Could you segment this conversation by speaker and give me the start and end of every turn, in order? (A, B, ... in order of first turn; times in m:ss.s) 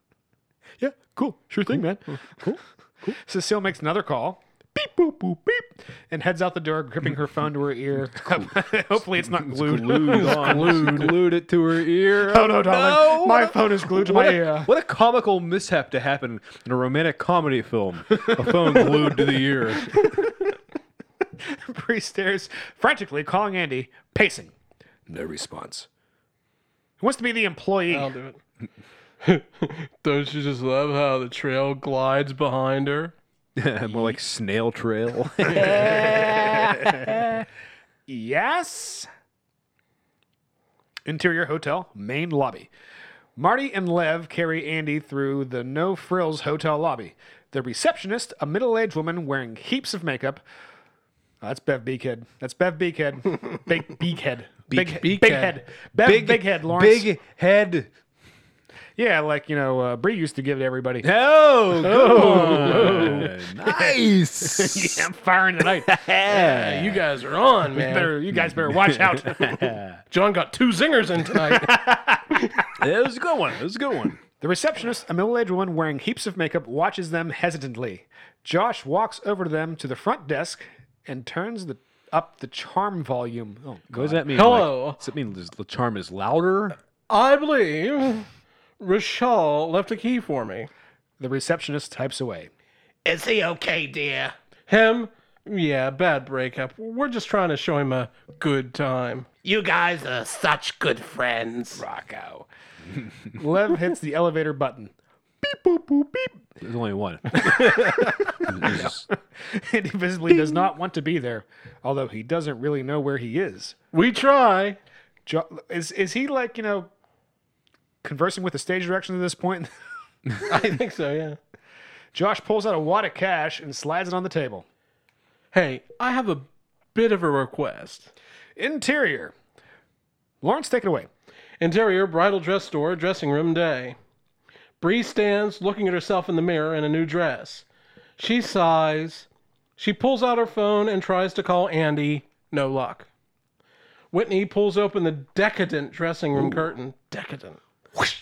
0:00.8-0:02.5 A
0:02.4-0:03.1 B
0:03.1-0:10.8 A
0:09.2-0:20.0 B
0:10.1-0:11.2 C
0:12.2-0:14.7 A
0:21.4-0:24.5 A
0:25.1-0:25.9 A
0:27.0-0:28.1 A
0:27.9-0:28.4 C
0:29.2-0:33.1 C
0:33.6-0:37.4 B
0:35.5-0:37.1 A
0:38.1-0:39.1 A
0:41.0-0:42.7 A
0:43.4-0:50.4 A
0:51.4-0:57.1 A
0:54.7-0:55.6 C
0:56.0-0:57.9 B
0:59.0-1:01.1 A
1:01.0-1:05.1 B
1:01.8-1:03.3 C
1:02.2-1:06.0 A
1:05.8-1:07.0 B
1:06.3-1:08.1 C
1:07.7-1:09.7 A
1:08.3-1:10.0 B
1:10.1-1:11.9 C
1:11.5-1:12.4 A
1:12.8-1:14.2 B
1:14.4-1:24.3 A
1:23.9-1:26.8 B
1:24.3-1:25.0 C
1:27.1-1:28.3 C
1:28.8-1:30.7 C
1:31.2-1:32.5 A
1:33.0-1:41.8 C
1:41.7-1:42.5 A
1:43.3-1:46.3 A
1:46.6-1:49.0 B
1:47.6-1:53.7 A
1:53.9-1:54.8 C
1:55.2-1:56.9 A
1:58.0-1:59.7 A
2:00.4-2:01.4 C
2:02.1-2:04.6 A
2:05.5-2:08.1 C
2:08.6-2:09.3 A
2:10.4-2:11.1 A
2:11.6-2:14.0 C
2:14.8-2:17.6 C
2:18.2-2:19.2 C
2:19.8-2:23.1 C
2:24.1-2:27.6 C
2:26.4-2:26.6 B